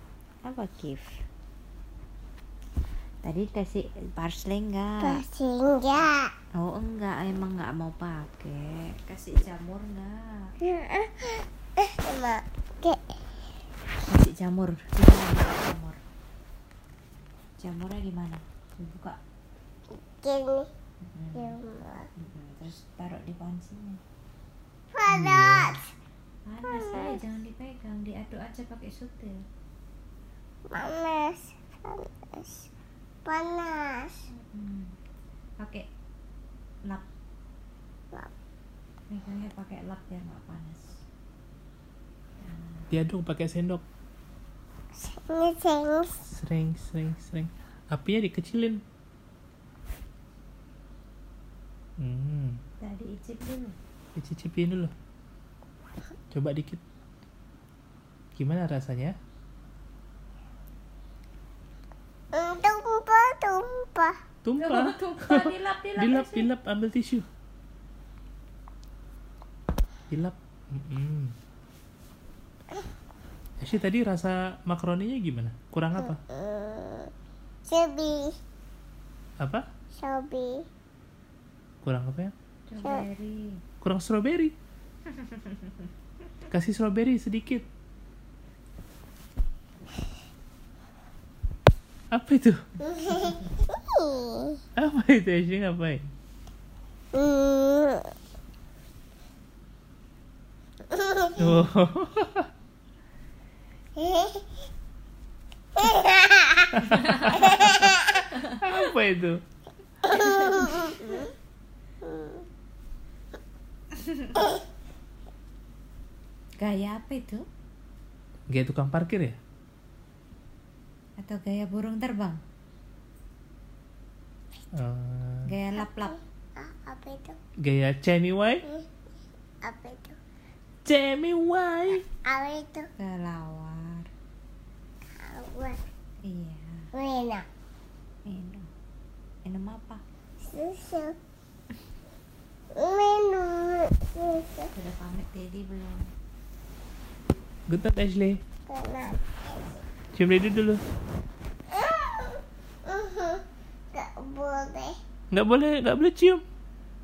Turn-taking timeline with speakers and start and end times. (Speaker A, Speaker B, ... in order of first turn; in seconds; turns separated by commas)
Speaker A: 0.5-1.1, Speaker A: 3.2-5.2, Speaker B: 5.0-6.3, Speaker A: 6.6-10.5, Speaker B: 10.6-13.0, Speaker A: 14.0-16.0, Speaker A: 17.6-19.2, Speaker B: 20.1-20.7, Speaker A: 21.0-21.6, Speaker B: 21.4-22.1, Speaker A: 22.1-24.0, Speaker B: 24.9-25.9, Speaker C: 25.1-25.4, Speaker A: 26.5-29.4, Speaker B: 26.7-27.2, Speaker B: 30.7-32.7, Speaker B: 33.3-34.3, Speaker A: 34.3-35.0, Speaker A: 35.6-35.9, Speaker A: 39.1-41.0, Speaker A: 42.4-42.9, Speaker C: 42.9-43.8, Speaker B: 45.0-46.2, Speaker C: 46.3-48.8, Speaker C: 52.0-52.6, Speaker A: 52.8-53.8, Speaker C: 54.2-54.9, Speaker C: 56.3-56.8, Speaker C: 58.4-59.1, Speaker B: 62.3-64.2, Speaker C: 64.4-67.3, Speaker A: 64.6-66.5, Speaker C: 70.1-71.4, Speaker C: 73.6-76.2, Speaker B: 76.0-77.1, Speaker B: 77.7-78.4, Speaker C: 79.4-79.7, Speaker B: 80.0-80.7, Speaker C: 81.8-82.3, Speaker A: 82.7-83.6, Speaker C: 83.8-84.5, Speaker A: 85.1-85.7, Speaker C: 86.5-87.7, Speaker C: 92.1-92.6, Speaker B: 92.8-94.6, Speaker C: 94.8-96.1, Speaker B: 97.1-98.1, Speaker B: 100.9-101.5, Speaker C: 101.4-102.5, Speaker B: 104.0-104.4, Speaker B: 105.8-108.2, Speaker C: 106.8-109.4, Speaker A: 106.9-107.4, Speaker B: 110.1-111.1, Speaker A: 110.2-111.2, Speaker B: 112.0-112.4, Speaker A: 114.0-114.4, Speaker A: 116.6-117.5, Speaker C: 118.5-119.4, Speaker A: 121.2-122.4, Speaker C: 124.7-125.5, Speaker A: 125.5-126.2, Speaker B: 125.8-127.4, Speaker C: 127.6-128.6, Speaker B: 129.6-130.2, Speaker C: 130.8-132.1, Speaker B: 132.2-132.9, Speaker A: 133.0-134.1, Speaker B: 135.2-135.8, Speaker A: 136.2-136.9, Speaker B: 136.9-137.5, Speaker A: 138.2-138.7, Speaker A: 139.4-140.0, Speaker B: 140.4-141.2, Speaker B: 142.7-144.7, Speaker A: 144.7-146.1, Speaker C: 147.7-148.4, Speaker B: 148.7-149.8, Speaker C: 150.2-150.8, Speaker B: 151.7-155.0, Speaker C: 155.3-156.4